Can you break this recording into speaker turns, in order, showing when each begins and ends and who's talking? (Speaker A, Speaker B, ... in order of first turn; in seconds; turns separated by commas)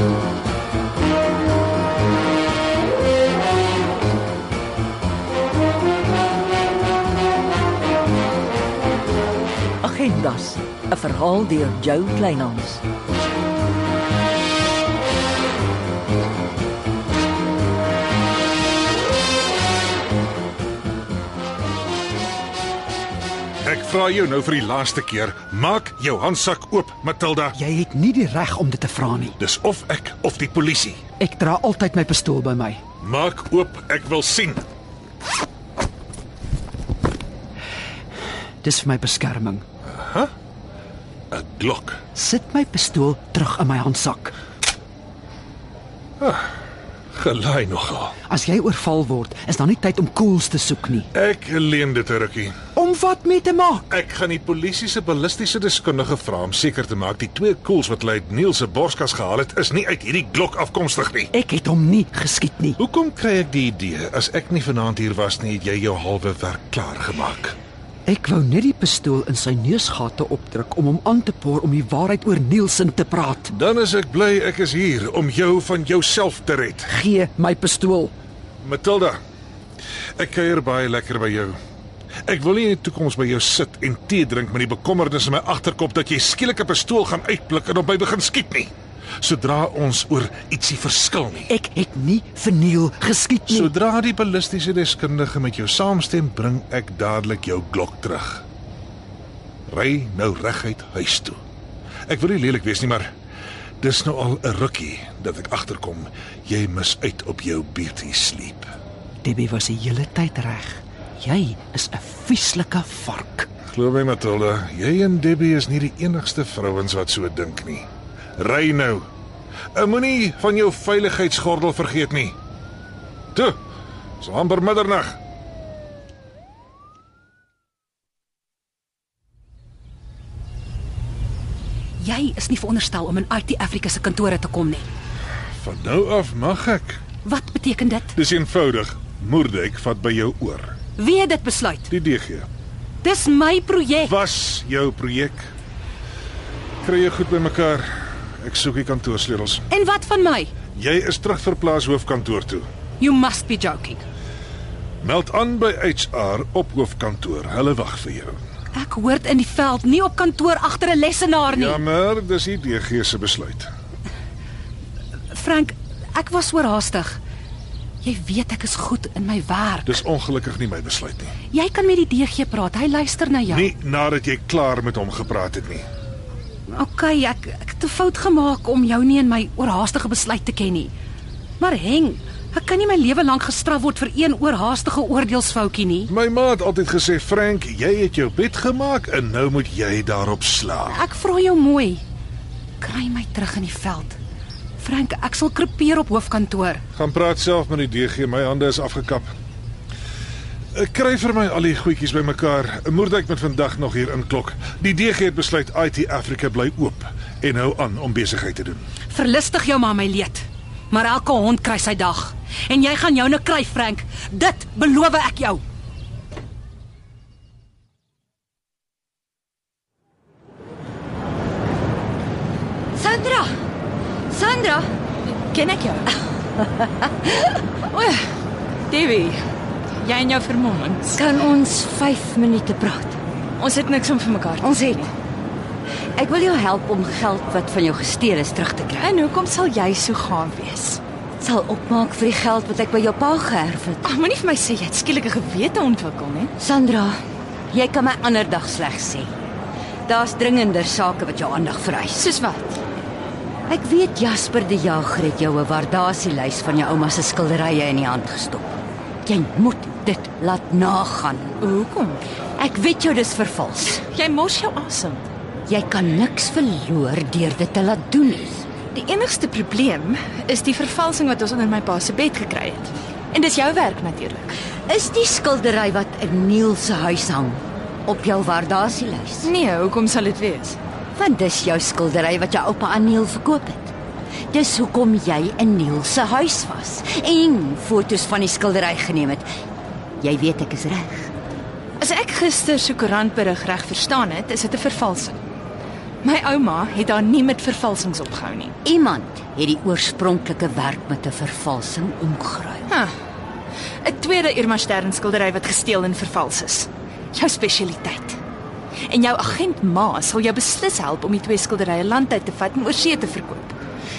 Speaker A: 9.8-12.8, Speaker B: 23.6-27.6, Speaker C: 27.6-29.4, Speaker B: 29.4-31.0, Speaker C: 31.2-32.8, Speaker B: 33.0-34.6, Speaker C: 38.6-39.6, Speaker B: 39.9-40.3, Speaker B: 41.3-42.0, Speaker C: 42.1-44.3, Speaker B: 46.2-46.5, Speaker B: 47.1-48.1, Speaker C: 48.3-51.1, Speaker B: 51.1-52.5, Speaker C: 52.8-53.8, Speaker B: 53.9-61.3, Speaker C: 61.3-62.8, Speaker B: 62.8-67.5, Speaker C: 68.1-73.5, Speaker B: 73.5-76.9, Speaker C: 76.9-78.1, Speaker B: 78.6-79.2, Speaker B: 80.2-81.6, Speaker B: 82.3-88.7, Speaker B: 89.2-91.5, Speaker C: 91.5-93.7, Speaker B: 93.5-98.4, Speaker B: 99.7-101.4, Speaker B: 102.1-103.1, Speaker B: 103.8-108.7, Speaker C: 109.2-113.5, Speaker B: 113.7-117.9, Speaker B: 118.4-119.0, Speaker B: 119.8-122.3, Speaker B: 124.2-125.2, Speaker D: 132.0-134.9, Speaker B: 135.6-137.0, Speaker D: 137.2-138.1, Speaker B: 138.1-140.7, Speaker D: 141.0-141.9, Speaker B: 141.9-142.5, Speaker D: 143.0-144.1, Speaker B: 144.0-145.4, Speaker B: 146.8-147.9, Speaker B: 148.4-149.6, Speaker D: 149.7-150.5, Speaker B: 150.8-152.7, Speaker D: 153.0-154.0, Speaker B: 155.0-158.4, Speaker D: 158.7-161.8, Speaker B: 161.5-163.7, Speaker D: 165.3-167.2, Speaker D: 168.0-170.0, Speaker B: 169.8-171.3, Speaker D: 171.5-173.7, Speaker B: 173.5-175.8, Speaker D: 176.7-180.9, Speaker D: 181.6-186.1, Speaker B: 186.1-191.0, Speaker D: 190.9-192.0, Speaker D: 192.8-194.2, Speaker D: 194.8-196.8, Speaker B: 196.9-199.3, Speaker B: 200.8-208.8, Speaker D: 209.1-215.6, Speaker E: 222.9-223.5, Speaker E: 224.3-224.9, Speaker F: 225.5-226.1, Speaker F: 227.9-228.2, Speaker F: 228.9-229.4, Speaker F: 230.0-231.2, Speaker E: 231.1-233.2, Speaker F: 233.6-235.1, Speaker E: 234.6-235.1, Speaker E: 236.2-239.1, Speaker F: 239.0-241.0, Speaker E: 241.4-244.1, Speaker F: 244.0-246.5, Speaker E: 246.6-249.3, Speaker E: 250.1-252.3, Speaker F: 252.1-252.8, Speaker E: 253.7-261.6, Speaker F: 261.6-262.2, Speaker E: 262.6-264.0, Speaker F: 264.1-265.3, Speaker E: 265.7-268.7, Speaker F: 268.9-274.5, Speaker E: 274.9-279.5, Speaker F: 279.4-280.8, Speaker E: 281.1-283.9, Speaker E: 284.5-289.5, Speaker E: 290.2-291.3, Speaker F: 292.0-295.4, Speaker F: 296.2-298.8, Speaker E: 298.8-302.9, Speaker F: 302.9-303.1, Speaker F: 304.0-308.4, Speaker F: 309.1-313.8